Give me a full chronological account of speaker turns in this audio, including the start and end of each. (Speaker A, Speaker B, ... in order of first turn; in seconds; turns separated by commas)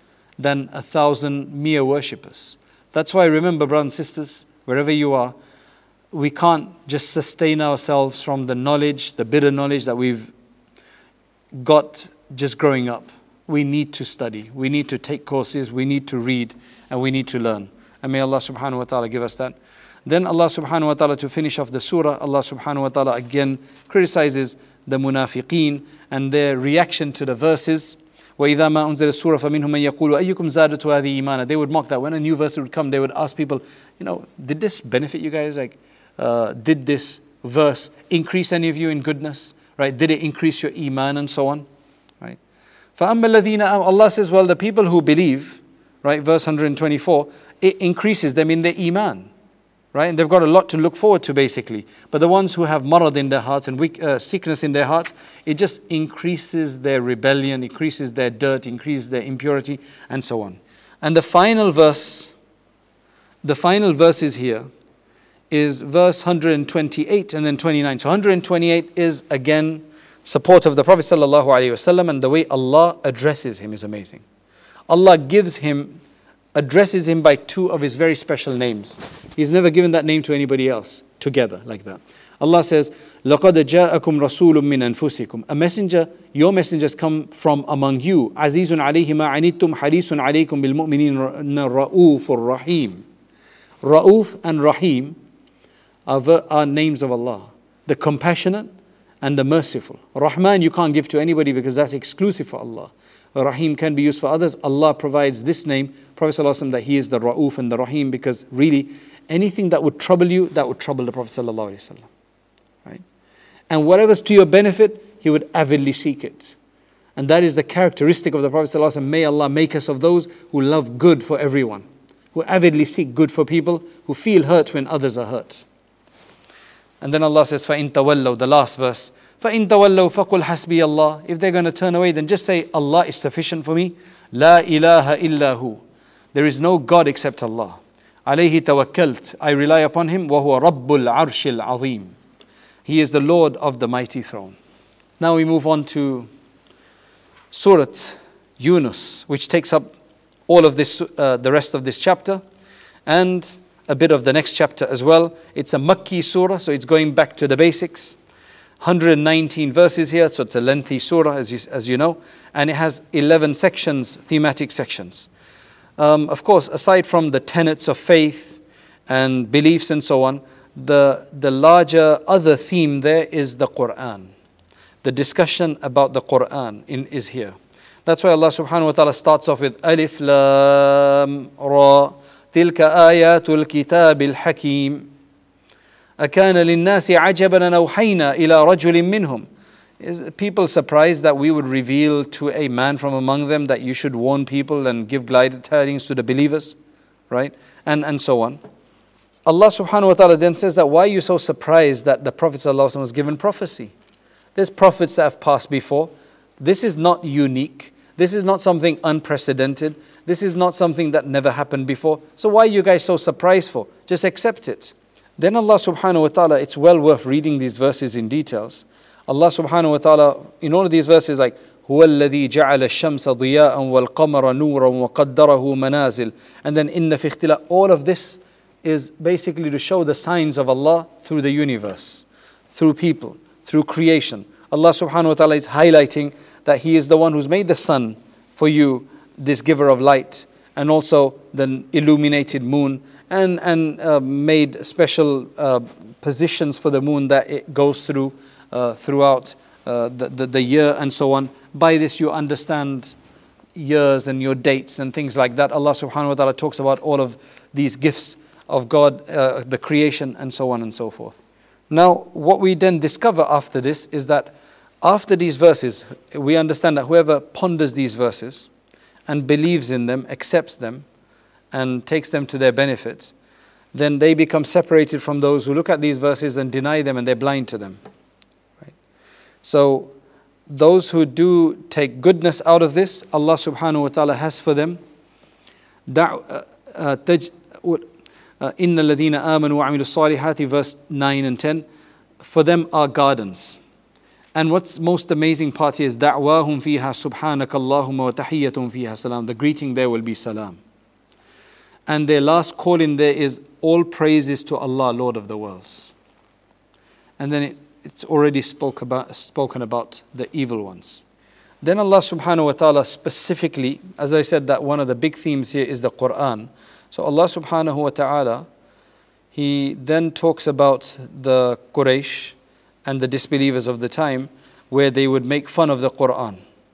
Speaker A: 0.4-5.3, Speaker A: 6.1-10.3, Speaker A: 11.5-41.7, Speaker A: 43.0-49.3, Speaker A: 49.9-62.3, Speaker A: 63.4-64.7, Speaker A: 65.5-74.2, Speaker A: 74.9-76.0, Speaker A: 76.5-93.0, Speaker A: 93.8-95.2, Speaker A: 96.1-98.7, Speaker A: 99.2-112.1, Speaker A: 113.7-116.6, Speaker A: 117.2-125.7, Speaker A: 127.0-135.8, Speaker A: 136.3-142.2, Speaker A: 142.8-144.6, Speaker A: 145.2-146.3, Speaker A: 147.5-149.9, Speaker A: 150.5-152.4, Speaker A: 153.1-158.2, Speaker A: 158.8-165.3, Speaker A: 166.0-174.3, Speaker A: 175.0-185.1, Speaker A: 186.2-189.5, Speaker A: 190.0-196.8, Speaker A: 197.3-198.6, Speaker A: 199.5-203.9, Speaker A: 204.6-253.2, Speaker A: 253.8-268.7, Speaker A: 269.3-271.1, Speaker A: 271.7-273.3, Speaker A: 273.9-278.0, Speaker A: 279.6-280.1, Speaker A: 280.7-285.0, Speaker A: 286.1-288.1, Speaker A: 288.6-291.9, Speaker A: 292.4-293.8, Speaker A: 294.6-300.8, Speaker A: 302.1-306.1, Speaker A: 307.4-311.2, Speaker A: 311.8-318.7, Speaker A: 319.5-326.6